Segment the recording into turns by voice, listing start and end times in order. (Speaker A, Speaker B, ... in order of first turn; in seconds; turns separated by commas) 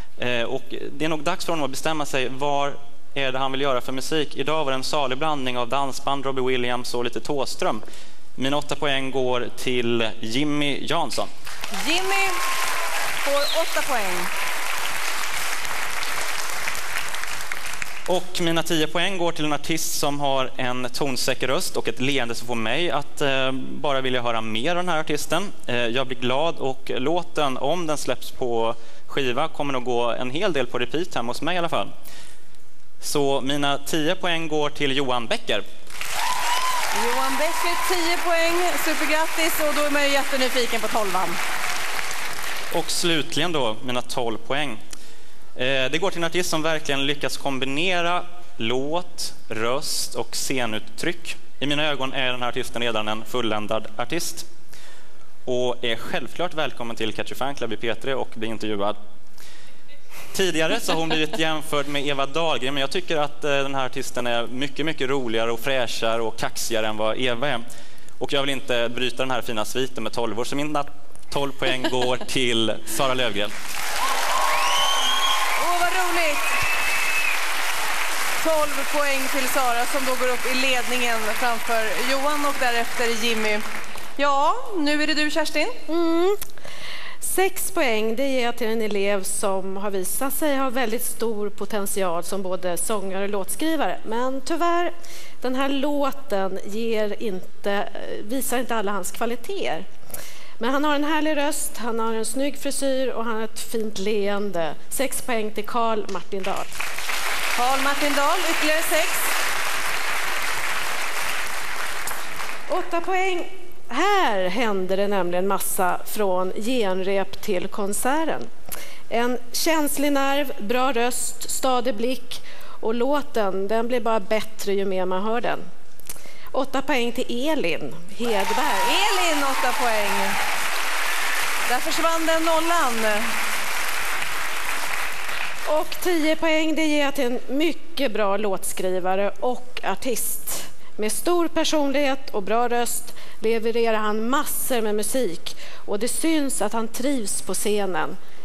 Speaker A: 0.2-7.8, Speaker A: 8.4-11.3, Speaker B: 11.7-12.4, Speaker B: 13.2-14.3, Speaker A: 18.1-31.9, Speaker A: 33.0-35.6, Speaker B: 36.9-41.4, Speaker A: 42.7-44.8, Speaker A: 45.5-54.5, Speaker A: 55.5-59.0, Speaker A: 60.3-67.6, Speaker A: 68.2-73.5, Speaker B: 75.6-76.5, Speaker B: 78.4-83.6, Speaker B: 84.2-85.8, Speaker C: 85.9-86.4, Speaker C: 87.2-99.9, Speaker C: 100.6-106.8, Speaker B: 107.5-109.3, Speaker C: 112.7-118.5, Speaker C: 119.1-125.7, Speaker C: 126.5-128.9, Speaker B: 128.8-130.4, Speaker B: 131.7-133.3, Speaker C: 135.7-148.2